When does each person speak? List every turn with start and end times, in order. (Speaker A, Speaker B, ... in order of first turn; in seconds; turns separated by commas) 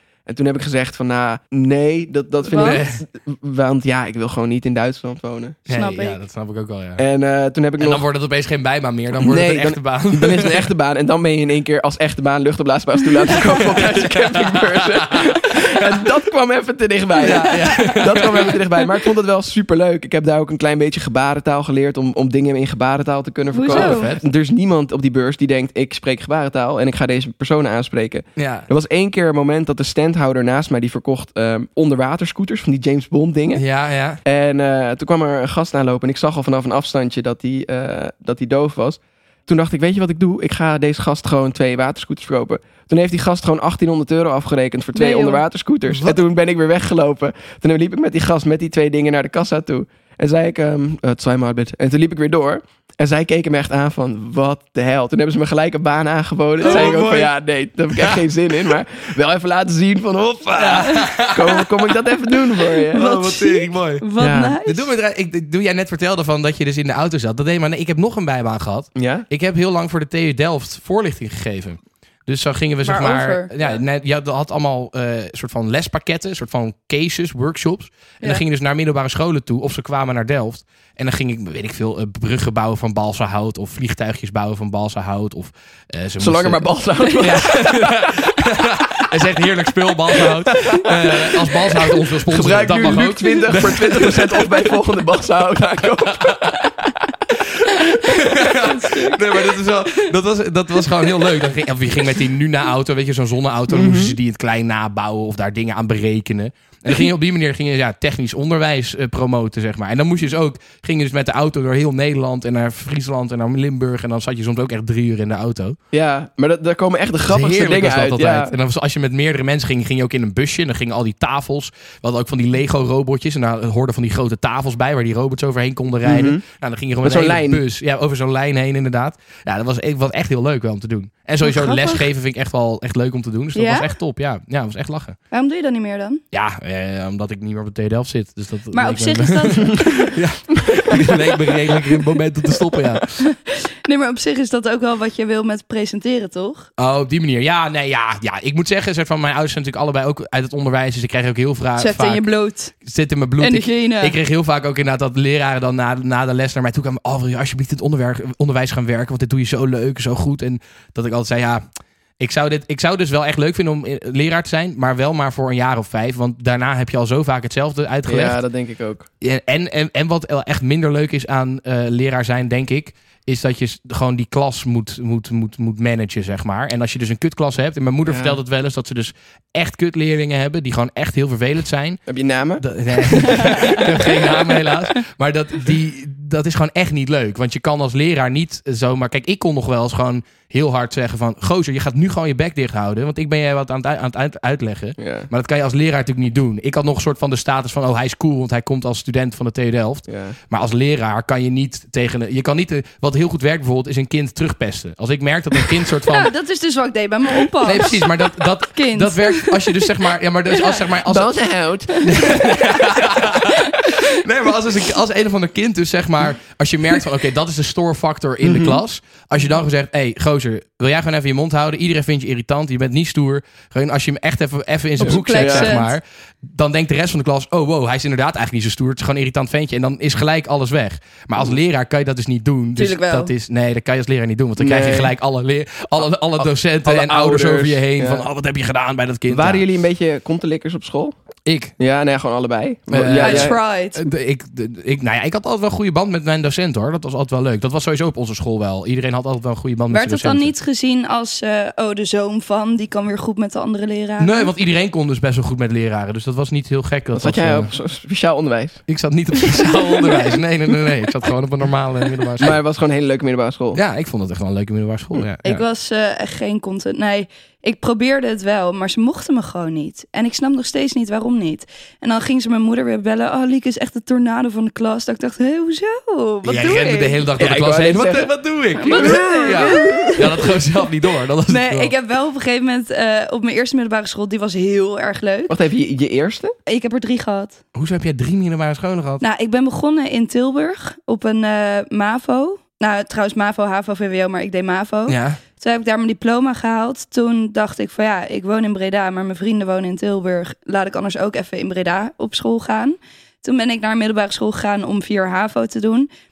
Speaker A: 0.2-5.7, Speaker B: 2.5-2.8, Speaker C: 2.5-3.0, Speaker C: 5.7-7.0, Speaker B: 5.7-6.2, Speaker A: 7.0-8.0, Speaker C: 7.8-10.7, Speaker A: 9.2-33.6, Speaker C: 13.5-15.9, Speaker C: 17.2-18.6, Speaker B: 17.3-18.5, Speaker B: 23.5-24.1, Speaker C: 23.7-24.2, Speaker C: 28.4-28.7, Speaker C: 33.5-34.2, Speaker A: 34.2-63.1, Speaker B: 44.9-45.4, Speaker C: 56.6-57.3, Speaker B: 56.6-57.0, Speaker C: 57.9-58.2, Speaker C: 60.5-62.0, Speaker B: 60.6-61.1, Speaker C: 62.9-64.0, Speaker B: 62.9-64.9, Speaker A: 64.2-64.6, Speaker C: 64.6-86.6, Speaker A: 68.9-69.3, Speaker B: 72.8-73.8, Speaker A: 86.2-88.3, Speaker C: 87.2-94.7, Speaker A: 90.2-96.7, Speaker C: 95.8-96.4, Speaker C: 97.5-115.8, Speaker B: 98.0-99.2, Speaker A: 103.7-104.2, Speaker A: 115.9-118.5, Speaker C: 117.2-135.2, Speaker A: 126.0-126.4, Speaker A: 127.0-127.6, Speaker B: 131.4-132.1, Speaker B: 133.5-133.9, Speaker B: 135.3-136.2, Speaker C: 136.3-143.2, Speaker B: 138.7-140.1, Speaker B: 143.2-146.7, Speaker C: 146.8-161.6, Speaker B: 151.8-152.7, Speaker B: 153.4-154.2, Speaker C: 162.2-168.4, Speaker A: 168.1-169.1, Speaker C: 169.2-182.0, Speaker A: 178.0-178.4, Speaker A: 182.1-182.6, Speaker C: 182.6-206.3, Speaker B: 183.6-183.8, Speaker A: 195.0-195.3, Speaker A: 200.1-200.3, Speaker B: 206.1-209.9, Speaker C: 207.6-211.3, Speaker B: 210.5-210.8, Speaker A: 211.0-212.1, Speaker B: 211.9-212.8, Speaker C: 212.0-239.6, Speaker B: 213.6-214.0, Speaker A: 218.4-218.8, Speaker B: 225.0-225.9, Speaker A: 225.0-225.8, Speaker B: 232.8-233.3, Speaker A: 234.6-235.1, Speaker A: 236.4-238.2, Speaker A: 239.3-241.1, Speaker C: 241.5-241.7, Speaker A: 241.8-243.6, Speaker C: 242.9-250.5, Speaker B: 243.2-244.0, Speaker B: 249.9-254.5, Speaker C: 254.2-257.7, Speaker A: 257.1-258.8, Speaker C: 258.9-262.6, Speaker B: 260.0-260.4, Speaker A: 262.4-263.8, Speaker C: 263.7-265.6, Speaker B: 265.4-277.2, Speaker C: 276.4-281.9, Speaker A: 277.4-278.3, Speaker B: 278.8-280.5, Speaker A: 278.9-280.3, Speaker B: 281.5-285.5, Speaker A: 285.5-286.5, Speaker B: 286.6-287.6, Speaker C: 287.7-289.2, Speaker B: 289.2-306.1, Speaker C: 295.1-295.4